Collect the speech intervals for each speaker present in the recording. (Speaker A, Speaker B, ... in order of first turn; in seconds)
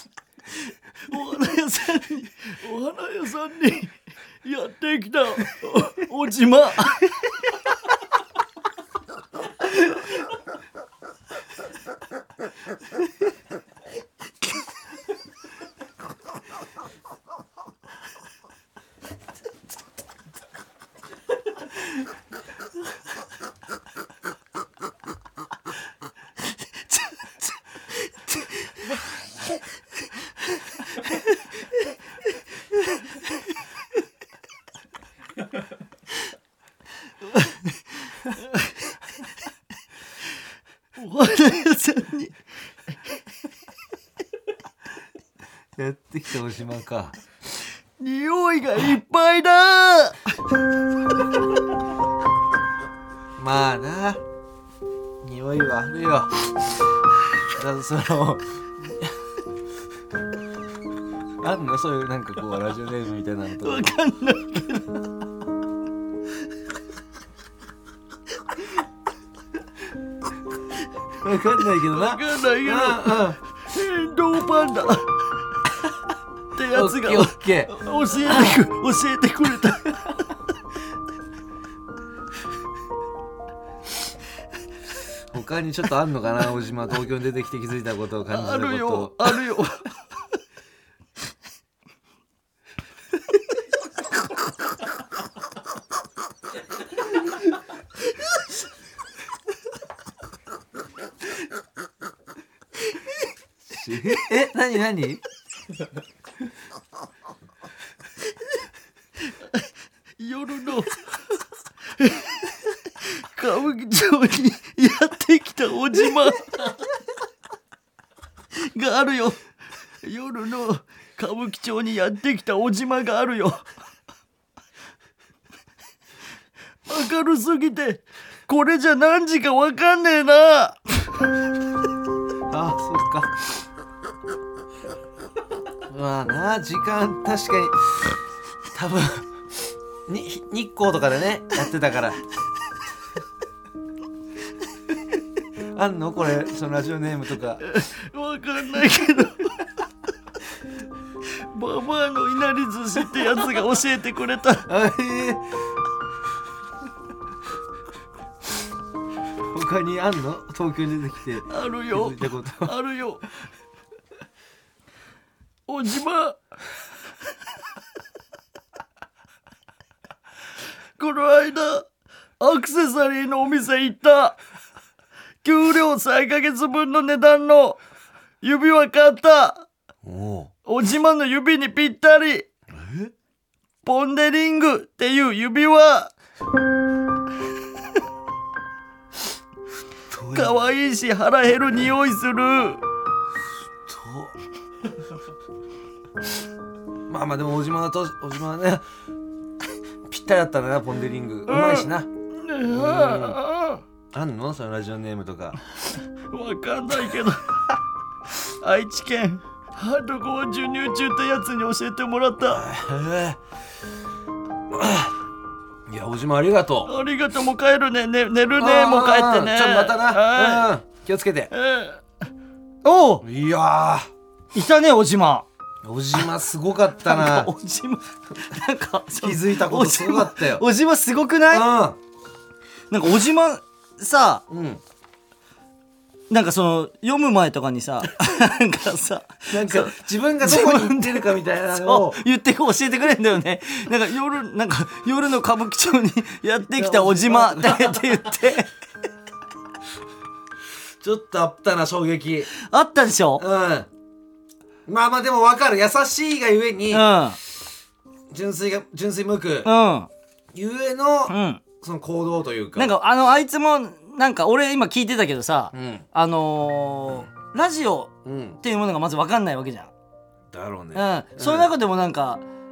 Speaker A: 1.1-7.5, 37.3-37.6, 38.4-38.7, 41.0-42.4, 48.0-50.2, 63.6-65.0, 71.9-75.1, 76.5-80.0, 88.3-89.9, 110.2-111.1, 112.0-116.8, 118.7-119.4, 120.0-123.7, 126.9-130.8, 147.7-149.6, 151.5-154.7, 161.5-163.2, 165.7-166.4, 171.0-171.9, 172.4-174.4, 175.4-177.8, 178.4-179.7, 180.6-182.5, 183.8-186.1, 190.3-192.8, 201.5-203.8, 206.3-207.6, 208.6-212.6, 216.9-220.7, 221.5-222.0
Speaker B: 45.8-47.1, 53.4-54.2, 55.2-56.3, 57.5-59.1, 61.4-63.9, 71.2-73.4, 76.7-77.7, 85.3-89.3, 103.7-105.2, 132.5-133.6, 135.9-138.0, 138.7-139.3, 140.1-142.2, 145.7-147.6, 154.7-155.4, 159.5-162.8, 180.0-180.5, 182.7-183.1, 190.1-190.6, 193.8-194.3, 197.1-198.8, 200.1-202.1, 202.6-203.4, 204.1-205.6, 212.5-213.4, 214.7-215.1, 215.9-216.9, 218.6-221.5, 223.2-224.1, 225.8-227.5, 229.2-230.6, 231.5-232.0, 234.5-234.8, 239.5-242.2, 246.7-248.4, 251.0-252.5, 253.4-253.9, 254.8-257.1, 258.3-259.7, 260.5-262.9, 265.7-266.1, 268.2-268.6, 270.5-271.7
Speaker C: 222.8-223.2, 224.5-225.5, 227.0-231.7, 232.9-234.4, 236.3-248.7, 252.6-253.4, 256.9-257.4, 259.6-260.1, 261.3-261.6, 262.7-269.9, 270.9-272.4